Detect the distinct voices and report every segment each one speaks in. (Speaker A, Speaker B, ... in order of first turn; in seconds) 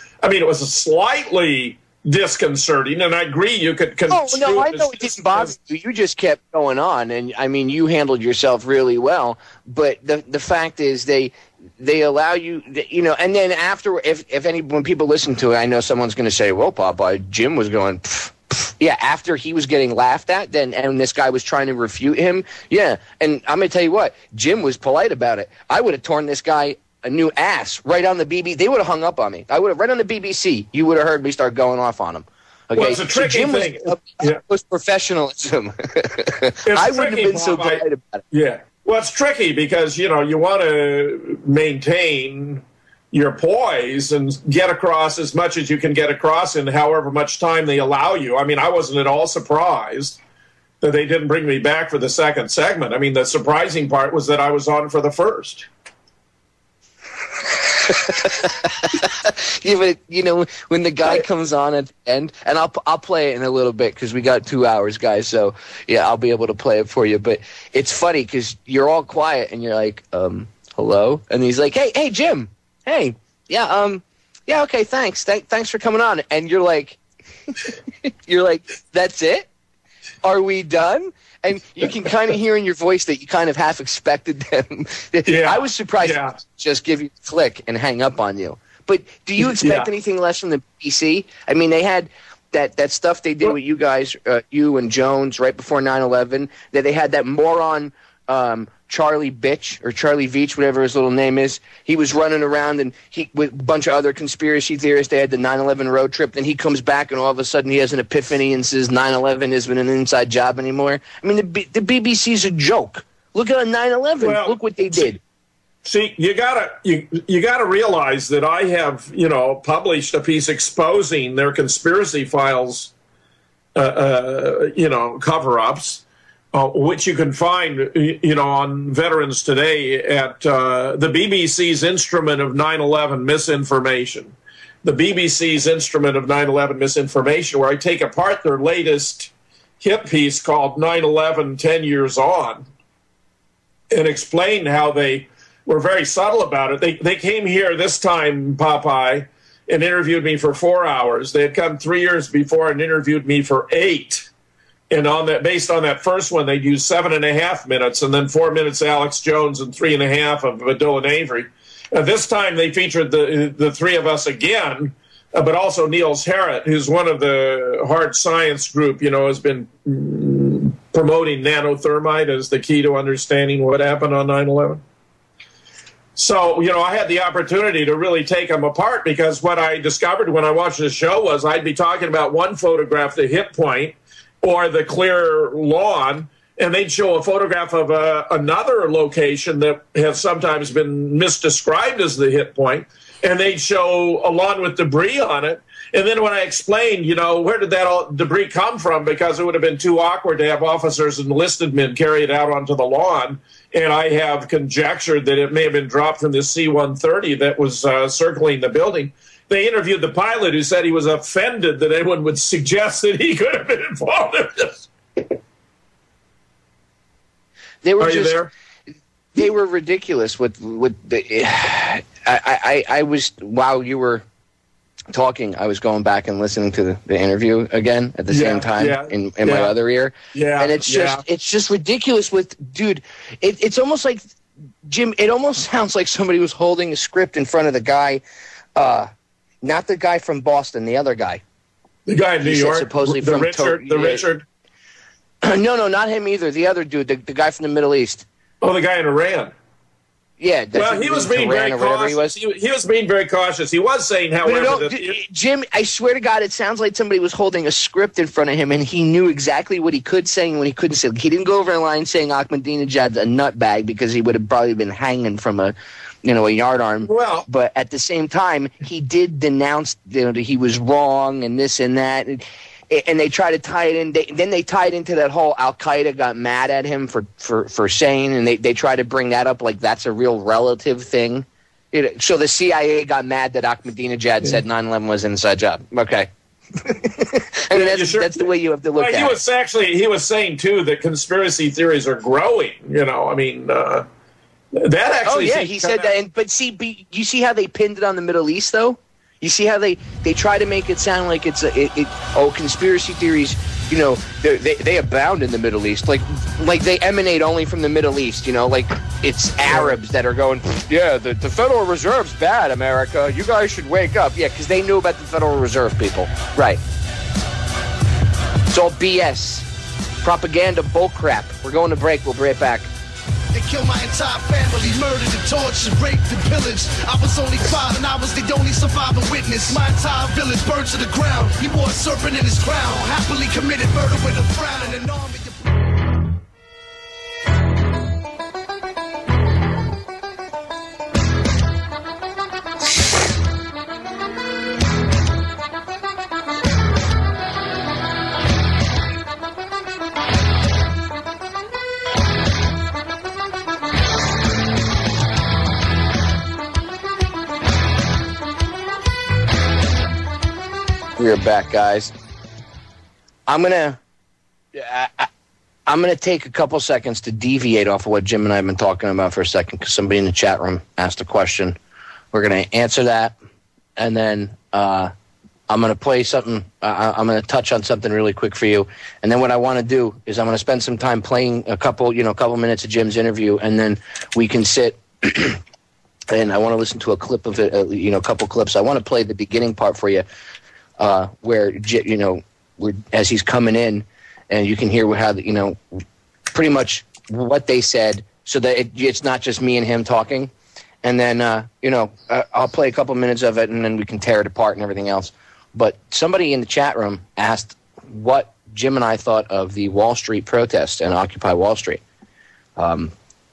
Speaker A: 0.2-5.5, 32.7-34.4, 36.7-50.2, 50.8-55.7, 85.3-86.4, 89.4-89.9, 114.2-115.1, 115.8-122.9, 123.8-126.0, 126.5-142.6, 143.9-154.3, 154.9-174.8, 176.2-215.3, 218.0-218.5, 228.3-229.7, 230.3-231.2, 242.1-244.4, 248.6-249.5, 250.8-255.2, 267.1-267.5, 287.7-294.1, 294.7-296.1
Speaker B: 4.1-38.2, 57.9-77.0, 78.0-79.5, 80.2-115.2, 217.8-218.4, 219.3-224.2, 225.1-234.2, 234.9-238.2, 238.8-239.1, 239.6-241.4, 242.4-244.2, 245.4-248.2, 250.4-252.3, 254.4-286.3, 286.8-289.4, 295.2-316.8, 318.7-319.7, 320.2-322.9, 361.2-362.1, 363.5-364.0, 364.7-365.3, 365.9-371.8, 372.3-373.4, 374.0-375.1, 375.7-385.6, 386.3-390.2, 391.0-396.0, 396.5-400.5, 401.0-412.0, 412.8-413.1
Speaker C: 323.5-335.6